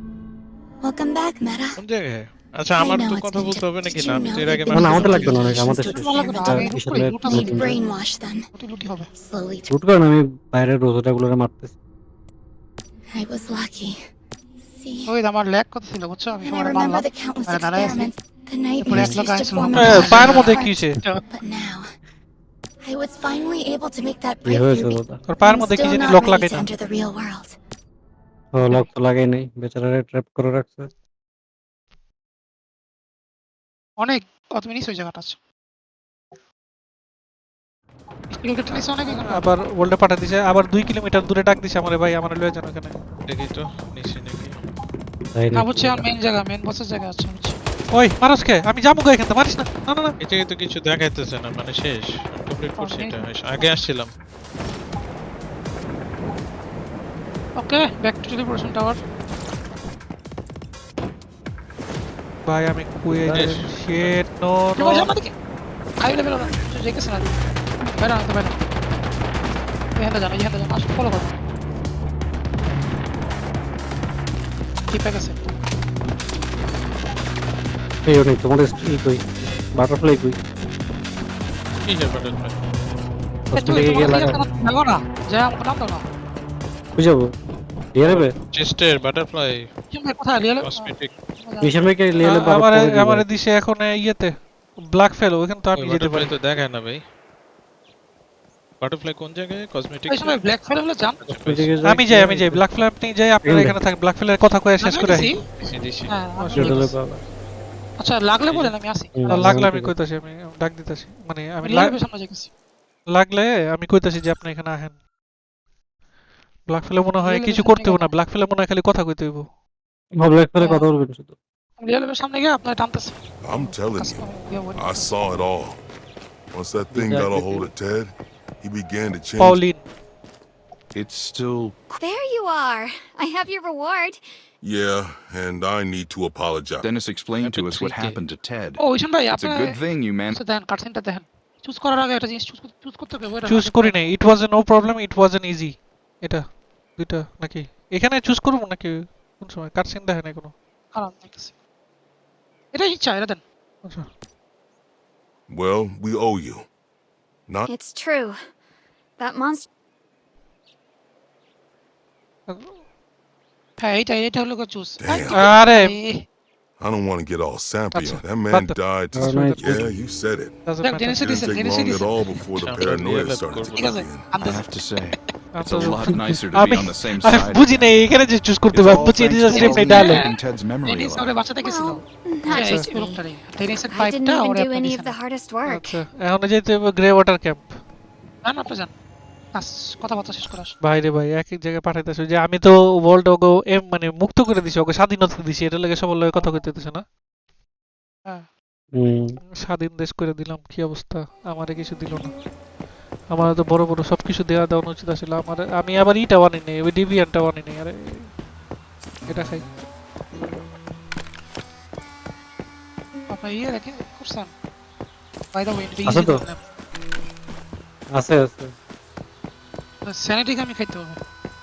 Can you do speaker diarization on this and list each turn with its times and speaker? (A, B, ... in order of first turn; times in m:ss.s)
0:00.8-0:01.8 A
0:01.8-0:05.7 B
0:02.8-0:06.7 A
0:04.7-0:07.8 C
0:05.0-0:07.8 D
0:07.2-0:08.4 A
0:08.5-0:09.1 D
0:09.2-0:09.7 A
0:09.7-0:11.7 C
0:13.1-0:14.0 A
0:14.7-0:15.1 A
0:15.1-0:18.1 D
0:16.4-0:21.9 A
0:18.8-0:21.2 D
0:19.7-0:21.0 E
0:22.8-0:27.6 A
0:24.4-0:25.2 C
0:25.2-0:26.7 E
0:28.5-0:30.9 C
0:34.0-0:35.4 D
0:38.3-0:39.4 D
0:39.1-0:43.0 E
0:43.3-0:44.6 B
0:45.3-0:46.1 C
0:45.5-0:47.6 D
0:47.9-0:50.1 E
0:50.2-0:54.1 B
0:52.8-0:53.2 D
0:57.6-0:59.0 D
1:02.4-1:05.1 E
1:03.1-1:03.5 C
1:03.3-1:04.2 B
1:04.8-1:05.3 D
1:06.0-1:07.4 D
1:08.0-1:08.6 D
1:10.0-1:11.4 D
1:14.9-1:15.5 D
1:18.0-1:19.2 C
1:19.8-1:20.4 C
1:21.8-1:22.6 B
1:23.5-1:24.4 C
1:23.5-1:26.0 D
1:27.0-1:27.3 C
1:27.9-1:28.3 C
1:28.1-1:29.7 B
1:29.9-1:31.7 D
1:30.6-1:31.1 B
1:31.6-1:33.2 C
1:32.2-1:34.3 E
1:34.9-1:36.3 E
1:35.8-1:37.0 B
1:38.8-1:40.4 B
1:40.1-1:41.2 D
1:41.2-1:41.7 B
1:41.3-1:42.6 C
1:41.8-1:45.3 E
1:43.4-1:43.7 C
1:44.8-1:45.4 D
1:45.7-1:46.1 B
1:46.1-1:46.9 D
1:46.4-1:46.8 E
1:46.5-1:47.2 C
1:48.0-1:49.6 D
1:49.2-1:49.9 C
1:49.3-1:51.9 E
1:51.6-1:52.5 D
1:53.1-1:55.0 E
1:56.7-1:59.4 E
1:57.2-1:58.1 D
2:00.2-2:01.4 C
2:00.6-2:00.8 D
2:01.8-2:05.1 D
2:03.4-2:04.2 F
2:04.8-2:05.8 F
2:06.5-2:09.6 F
2:06.9-2:07.7 C
2:09.4-2:09.8 E
2:10.9-2:11.9 G
2:12.0-2:14.2 H
2:14.6-2:16.9 F
2:16.8-2:18.8 G
2:17.4-2:18.2 B
2:18.8-2:19.8 D
2:19.3-2:20.4 G
2:20.3-2:24.1 D
2:23.4-2:26.4 E
2:27.0-2:30.5 E
2:30.9-2:31.5 D
2:32.7-2:33.4 D
2:35.5-2:36.6 F
2:37.7-2:38.4 H
2:39.2-2:39.7 H
2:42.5-2:42.8 E
2:43.8-2:46.2 D
2:45.0-2:45.4 F
2:45.3-2:45.9 E
2:46.8-2:50.6 F
2:47.9-2:49.9 E
2:49.2-2:49.8 C
2:50.6-2:51.4 E
2:50.8-2:52.1 D
2:51.2-2:54.3 F
2:52.6-2:53.9 B
2:53.7-2:54.6 D
2:54.4-2:57.9 G
2:55.5-3:00.2 E
2:58.7-3:01.4 G
2:59.5-3:00.3 D
3:00.8-3:05.2 D
3:01.6-3:03.2 H
3:02.5-3:03.0 A
3:03.9-3:06.0 H
3:05.6-3:07.7 E
3:08.4-3:08.9 D
3:09.5-3:10.7 D
3:10.8-3:17.0 E
3:16.4-3:16.6 D
3:18.9-3:19.4 C
3:19.6-3:22.3 E
3:23.3-3:28.3 E
3:29.3-3:29.7 E
3:33.3-3:34.5 D
3:35.5-3:36.6 D
3:36.0-3:36.4 C
3:38.1-3:38.7 C
3:40.0-3:41.2 D